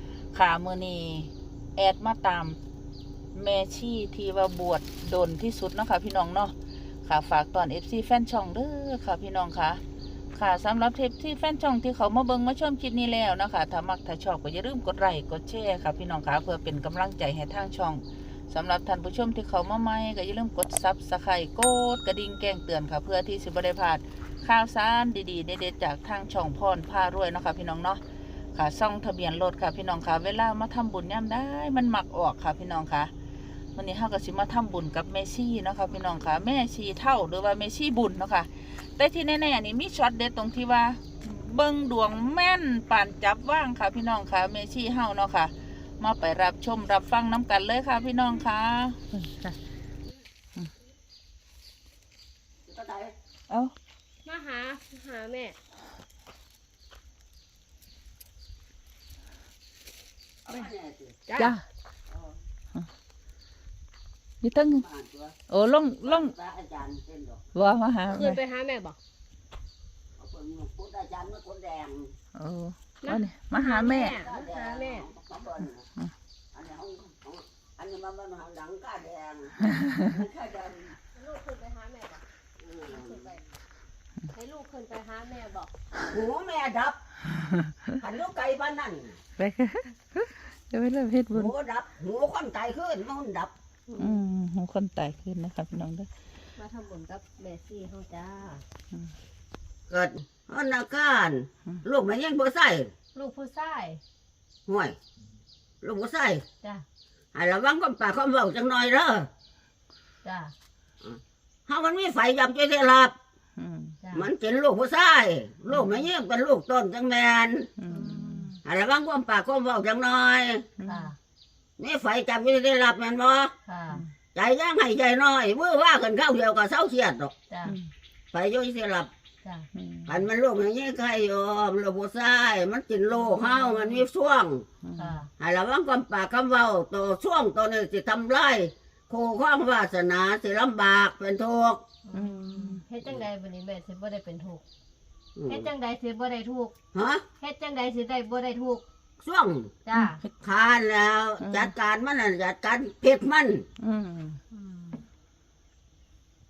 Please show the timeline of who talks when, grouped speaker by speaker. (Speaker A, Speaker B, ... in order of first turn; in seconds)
Speaker A: 0.3-2.6, 3.3-9.8, 10.3-28.0, 28.6-33.1, 33.8-49.5, 53.5-53.7, 61.4-61.6, 64.4-64.8, 65.5-66.3, 67.5-68.4, 72.3-74.2, 89.4-91.5, 94.0-96.1, 113.6-114.0, 117.8-118.6, 120.8-121.1, 129.8-130.2, 134.8-135.1, 142.1-142.8, 149.9-150.3, 151.4-151.7, 153.8-154.4
Speaker B: 52.7-53.1, 60.5-61.2, 64.6-65.4, 66.0-67.4, 70.2-72.1, 74.0-75.9, 76.5-81.0, 82.6-83.3, 86.1-87.0, 88.0-89.2, 91.3-93.5, 99.9-102.9, 104.7-105.0, 105.8-106.4, 107.3-109.3, 111.0-113.1, 114.1-117.7, 118.6-120.7, 121.8-123.5, 124.3-127.3, 128.3-129.1, 130.1-134.7, 135.4-141.8, 145.3-145.7, 146.9-147.2, 149.2-149.7, 150.4-153.7
Speaker C: 54.2-55.6, 61.3-61.5, 68.1-69.0, 73.0-75.1, 81.1-82.2, 82.9-83.4, 84.3-85.7, 93.9-94.2, 96.6-98.6, 103.1-104.0, 110.2-110.5, 114.0-114.3, 117.9-118.5, 120.8-121.2, 123.7-124.0, 127.5-127.8, 135.0-135.3, 142.0-144.6, 145.5-146.7, 147.4-148.8, 149.8-150.2, 154.5-155.0